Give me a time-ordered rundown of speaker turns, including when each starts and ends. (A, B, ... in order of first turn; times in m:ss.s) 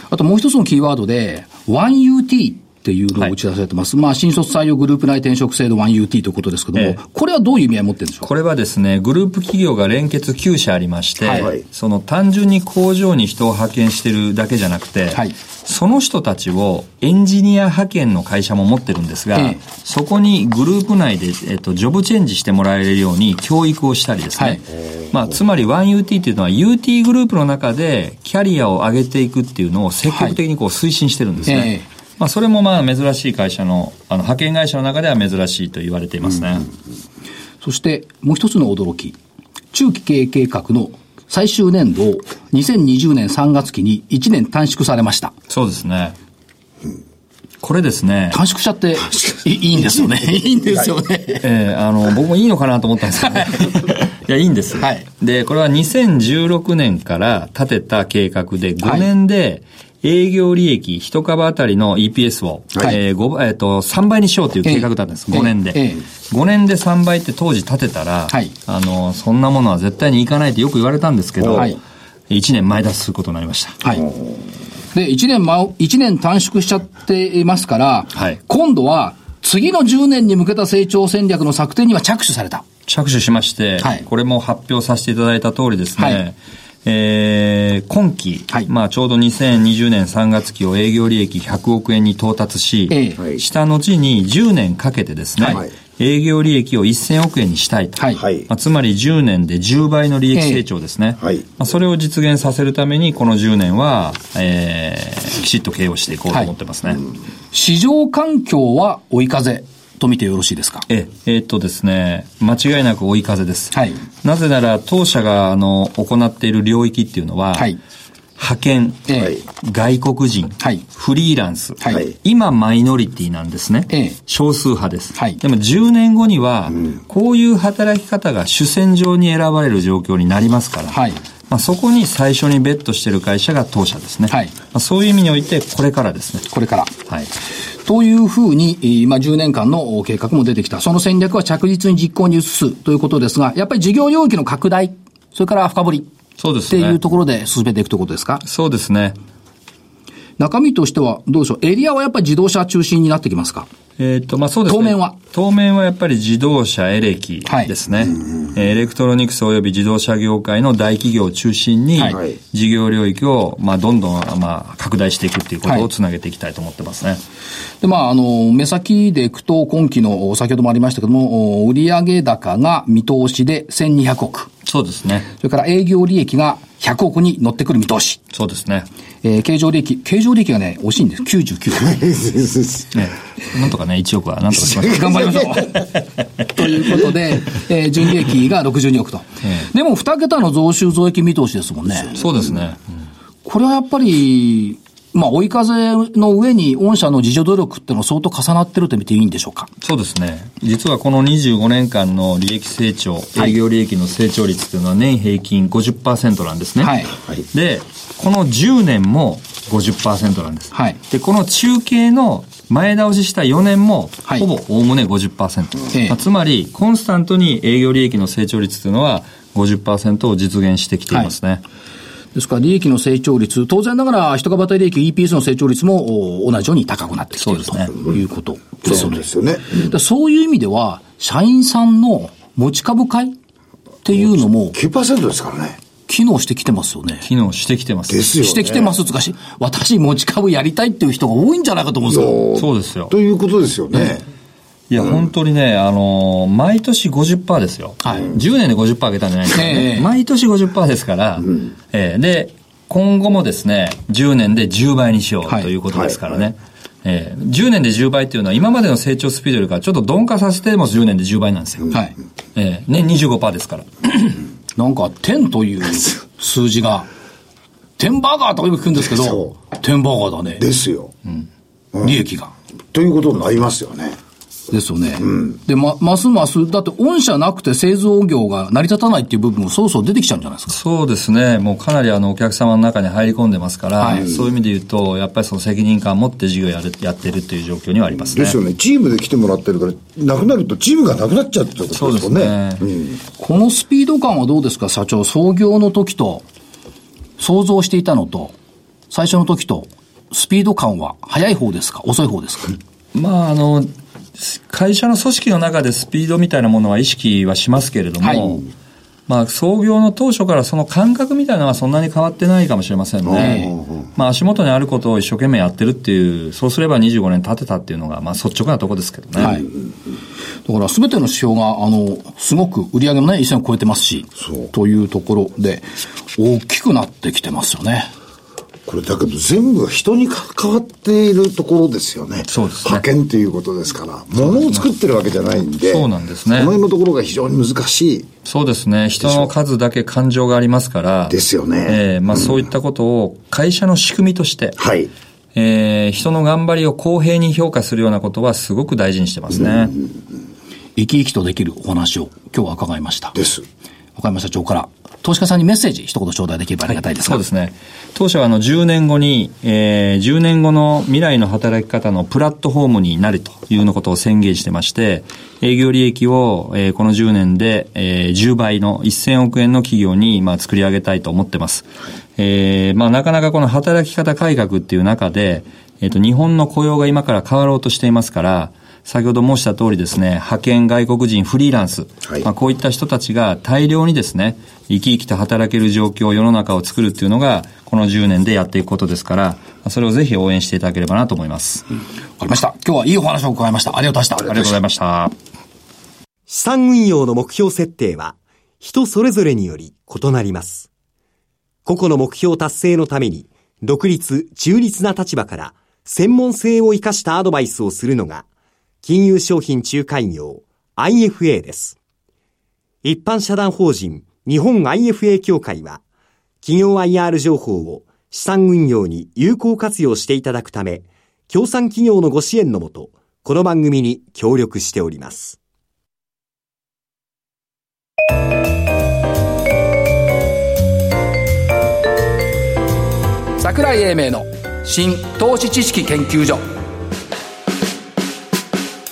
0:00.1-0:08.3 A
0:08.2-0:36.7 B
0:11.2-0:11.5 A
0:11.4-0:11.6 C
0:19.4-0:19.6 A
0:24.4-0:24.6 A
0:30.1-0:30.4 A
0:31.5-0:31.8 A
0:37.6-0:39.2 A
0:39.7-0:45.3 A
0:45.5-0:46.2 B
0:47.6-0:48.4 B
0:48.3-0:51.4 A
0:51.4-1:11.8 B
0:53.4-0:53.7 A
0:58.8-0:59.1 A
1:04.6-1:06.0 A
1:12.3-1:13.8 B
1:13.8-1:14.1 A
1:14.9-1:22.6 A
1:22.9-1:47.0 B
1:26.0-1:26.2 A
1:32.9-1:33.2 A
1:38.0-1:38.2 A
1:40.4-1:40.6 A
1:47.5-1:50.9 A
1:50.9-1:57.7 B
1:53.7-1:54.0 A
1:58.4-2:16.5 B
1:59.1-1:59.4 A
2:03.9-2:04.2 A
2:05.2-2:05.4 A
2:10.9-2:11.2 A
2:14.3-2:14.6 A
2:16.5-2:16.9 A
2:17.8-2:26.1 A
2:26.4-2:27.0 B
2:26.7-2:28.4 A
2:28.4-2:29.2 B
2:30.4-2:33.7 A
2:34.0-2:47.2 B
2:34.7-2:35.2 A
2:37.5-2:37.7 A
2:47.8-2:54.5 A
2:54.7-2:55.3 B
2:55.3-2:58.2 A
2:58.3-2:58.9 B
2:59.2-3:02.0 A
3:01.8-3:03.0 C
3:02.9-3:05.9 B
3:04.7-3:05.3 C
3:04.8-3:05.9 A
3:06.5-3:12.2 A
3:12.1-3:12.8 B
3:13.4-3:19.7 A
3:19.8-3:41.6 B
3:26.8-3:27.1 A
3:30.7-3:31.0 A
3:35.9-3:36.2 A
3:42.4-3:53.4 A
3:47.4-3:47.9 B
3:48.8-3:49.9 C
3:54.0-3:54.8 A
3:54.2-3:55.8 C
3:56.1-3:57.3 A
3:57.2-3:58.3 B
3:58.1-3:58.9 C
3:58.4-4:02.4 A
4:02.1-4:04.2 C
4:02.6-4:03.1 B
4:04.9-4:22.0 B
4:08.0-4:08.3 A
4:09.6-4:10.1 A
4:22.6-4:24.4 B
4:24.8-4:27.1 A
4:28.0-4:30.6 A
4:29.1-4:29.5 C
4:30.6-4:31.2 C
4:32.0-4:32.5 A
4:32.9-4:34.2 C
4:34.7-4:40.8 A
4:40.7-4:48.6 B
4:44.0-4:44.3 A
4:48.3-4:53.2 C
4:51.9-4:52.9 B
4:53.4-4:56.4 A
4:57.4-4:58.6 A
4:59.1-5:02.8 A
5:03.1-5:08.7 B
5:08.2-5:08.6 A
5:09.3-5:19.6 B
5:13.3-5:13.6 C
5:13.4-5:13.8 A
5:19.4-5:19.7 A
5:20.6-5:28.1 A
5:28.9-5:38.3 C
5:32.5-5:33.0 B
5:34.5-5:34.9 B
5:35.8-5:36.8 B
5:38.4-5:44.8 B
5:39.2-5:39.5 C
5:41.3-5:42.6 C
5:44.8-5:45.1 C
5:45.6-5:50.0 B
5:51.0-5:53.4 A
5:53.4-5:53.6 C
5:54.2-5:57.4 A
5:57.1-6:31.9 B
6:32.4-6:34.6 A
6:34.4-6:35.4 B
6:36.5-6:40.9 D
6:41.8-6:48.4 D
6:49.0-6:52.0 D
6:53.0-6:56.0 D
6:56.6-7:05.6 D
7:13.6-7:16.7 A